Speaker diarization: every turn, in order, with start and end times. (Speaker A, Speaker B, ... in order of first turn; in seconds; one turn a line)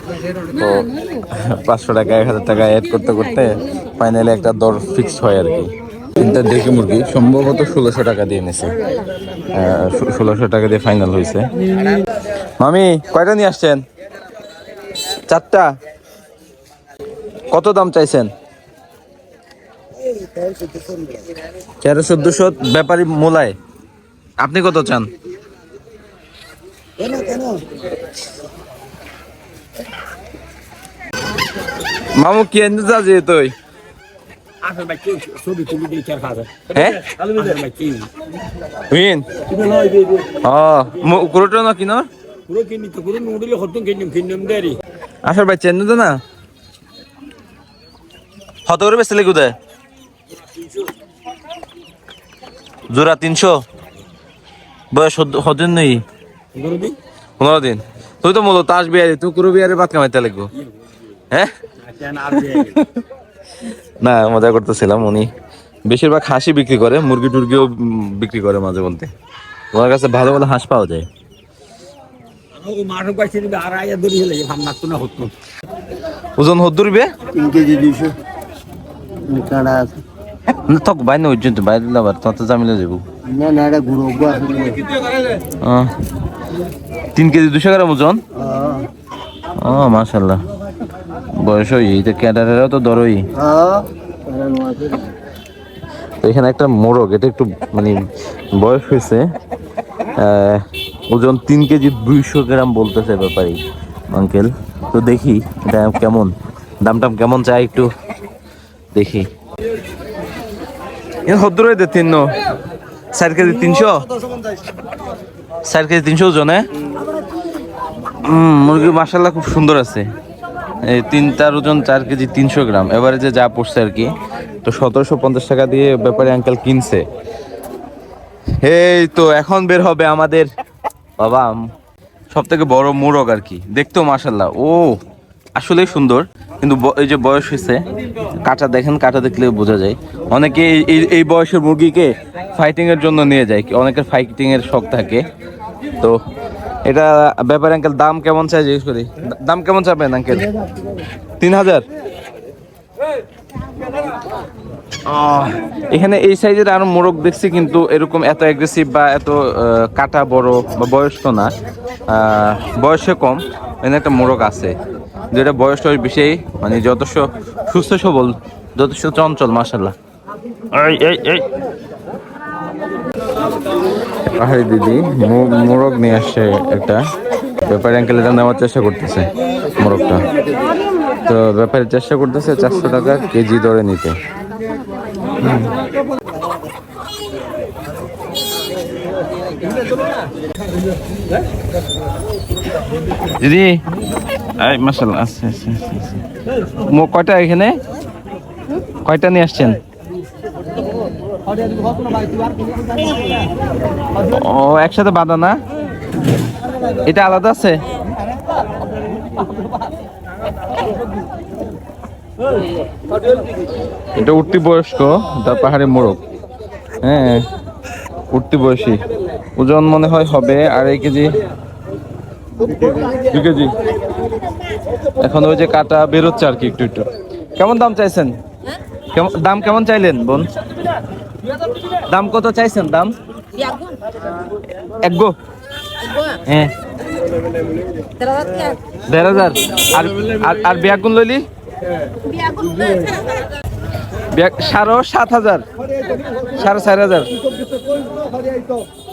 Speaker A: 0.4-8.7
Speaker A: 9.5-11.5
Speaker A: 12.6-13.8
Speaker A: 15.3-15.7
Speaker A: 17.5-18.3
Speaker A: 21.8-23.6
Speaker A: 24.4-25.1
Speaker A: 32.1-33.5
Speaker B: 34.6-36.5
Speaker A: 36.6-37.3
Speaker B: 37.5-38.1
Speaker A: 38.9-39.2
Speaker A: 40.4-42.1
Speaker B: 42.5-44.8
Speaker A: 45.2-46.2
Speaker A: 48.6-49.5
Speaker A: 52.9-53.6
Speaker A: 54.9-56.0
Speaker A: 56.6-60.5
Speaker A: 62.1-63.0
Speaker A: 64.0-65.3
Speaker A: 65.9-69.1
Speaker A: 69.7-71.1
Speaker B: 72.6-75.3
Speaker A: 76.4-77.1
Speaker C: 77.3-78.1
Speaker C: 79.2-80.0
Speaker A: 80.5-83.0
Speaker C: 83.3-84.8
Speaker A: 85.6-85.9
Speaker A: 87.1-88.2
Speaker C: 88.4-88.9
Speaker A: 89.6-90.4
Speaker A: 91.3-93.3
Speaker C: 93.4-95.0
Speaker A: 96.2-99.3
Speaker A: 100.2-103.6
Speaker A: 104.1-107.9
Speaker A: 108.9-109.3
Speaker A: 111.2-112.3
Speaker A: 113.1-114.1
Speaker A: 115.6-116.7
Speaker A: 118.2-120.1
Speaker A: 120.8-124.1
Speaker A: 124.6-127.0
Speaker A: 128.6-130.5
Speaker A: 131.2-131.6
Speaker A: 132.3-135.0
Speaker A: 135.6-137.8
Speaker A: 138.4-145.2
Speaker A: 146.8-150.5
Speaker A: 151.4-151.8
Speaker A: 155.1-161.5
Speaker A: 162.1-164.7
Speaker A: 165.3-169.9
Speaker A: 170.7-171.4
Speaker A: 174.3-177.0
Speaker A: 177.6-180.3
Speaker A: 181.2-184.2
Speaker A: 185.4-185.7
Speaker A: 193.4-193.8
Speaker A: 194.6-196.2
Speaker A: 196.8-197.8
Speaker A: 199.0-199.8
Speaker A: 204.2-205.6
Speaker A: 207.1-207.8
Speaker A: 214.2-216.2
Speaker A: 217.0-217.4
Speaker A: 218.3-219.0
Speaker A: 219.6-221.4
Speaker A: 222.8-223.7
Speaker A: 225.2-228.3
Speaker A: 229.1-230.5
Speaker A: 232.1-233.1
Speaker A: 235.0-235.3
Speaker A: 236.4-236.7
Speaker A: 239.1-241.4
Speaker A: 244.3-245.6
Speaker A: 246.5-247.3